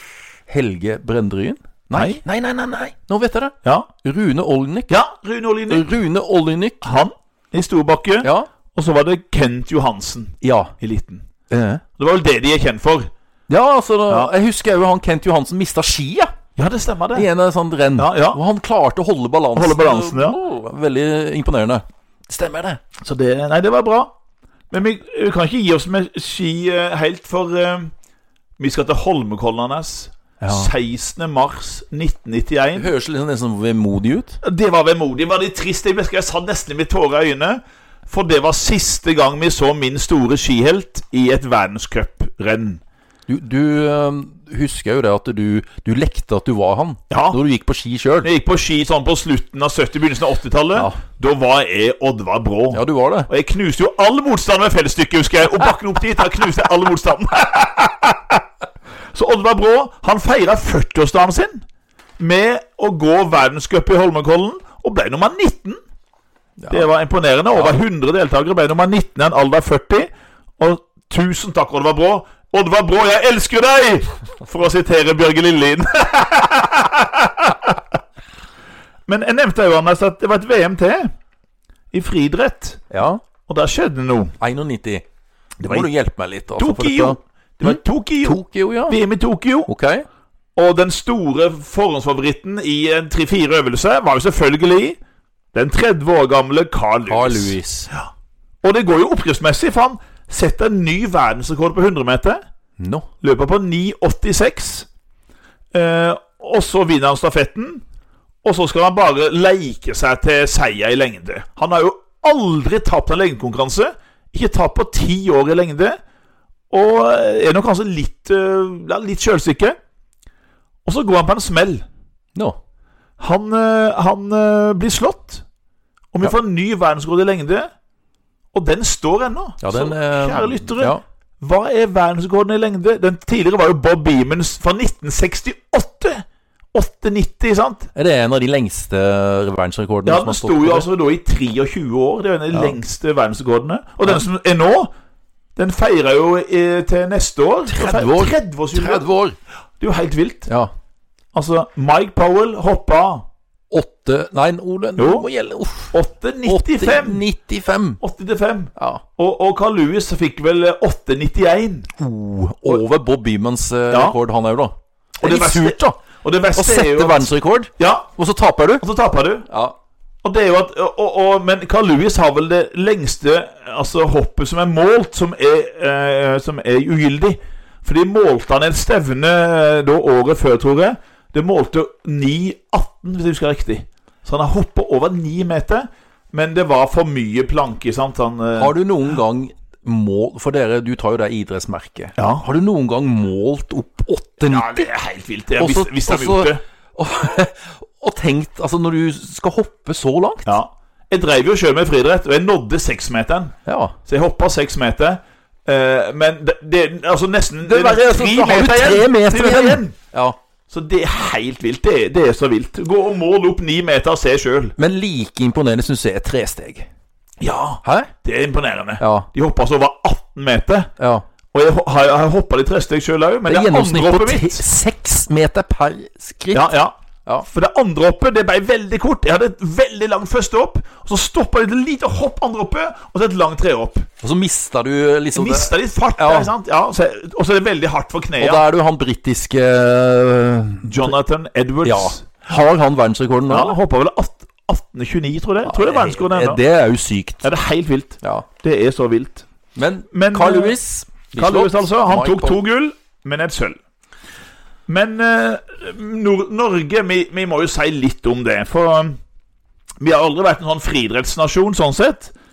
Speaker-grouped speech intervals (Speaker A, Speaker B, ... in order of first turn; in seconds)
Speaker A: 0.5-5.0, 5.7-6.8, 8.2-8.5, 10.4-10.7, 11.5-11.8, 13.5-16.3, 17.1-22.8, 30.4-30.7, 32.7-34.4, 43.3-48.3, 52.7-53.3, 66.6-66.9, 82.9-83.2, 84.4-85.0, 85.6-89.0, 89.7-90.0, 97.1-97.9, 102.8-103.1, 129.6-131.0, 137.9-140.9, 147.7-149.4, 150.5-150.7, 153.7-158.0, 158.8-159.0, 162.0-166.0, 166.5-168.8, 169.5-169.7, 188.6-194.9, 195.6-200.5, 203.7-203.9, 207.6-210.4, 214.8-216.9, 217.8-218.1, 219.0-219.3, 221.0-221.2, 223.5-226.7, 234.2-236.5, 238.4-241.1, 241.8-243.8, 245.6-247.4, 249.8-252.6
Speaker B: 1.9-2.2, 3.6-3.9, 4.9-5.9, 6.8-11.2, 12.0-13.1, 16.6-17.3, 18.0-18.4, 19.5-20.4, 23.0-24.1, 24.7-27.9, 28.6-32.9, 34.4-42.8, 47.1-47.4, 48.2-58.4, 59.1-61.6, 62.2-65.8, 66.7-77.8, 79.1-81.1, 81.9-82.8, 83.5-84.3, 85.6-85.9, 86.5-89.7, 90.5-95.0, 95.5-98.0, 98.6-102.4, 103.2-104.9, 105.7-107.8, 108.4-116.0, 116.7-119.8, 120.8-121.8, 123.2-125.4, 126.1-127.7, 128.5-137.9, 140.1-144.9, 145.6-149.1, 149.8-150.5, 151.3-153.2, 155.0-155.3, 155.9-157.2, 158.0-161.9, 163.9-164.2, 165.2-168.1, 168.8-169.5, 170.2-188.7, 192.2-192.4, 194.5-196.6, 200.4-203.5, 204.1-209.9, 210.7-214.8, 217.4-220.9, 221.5-224.6, 226.5-226.9, 227.5-234.1, 235.3-238.6, 240.8-242.2, 243.5-246.6, 247.4-249.4, 250.1-250.8, 251.3-253.8, 254.9-259.2, 260.0-262.3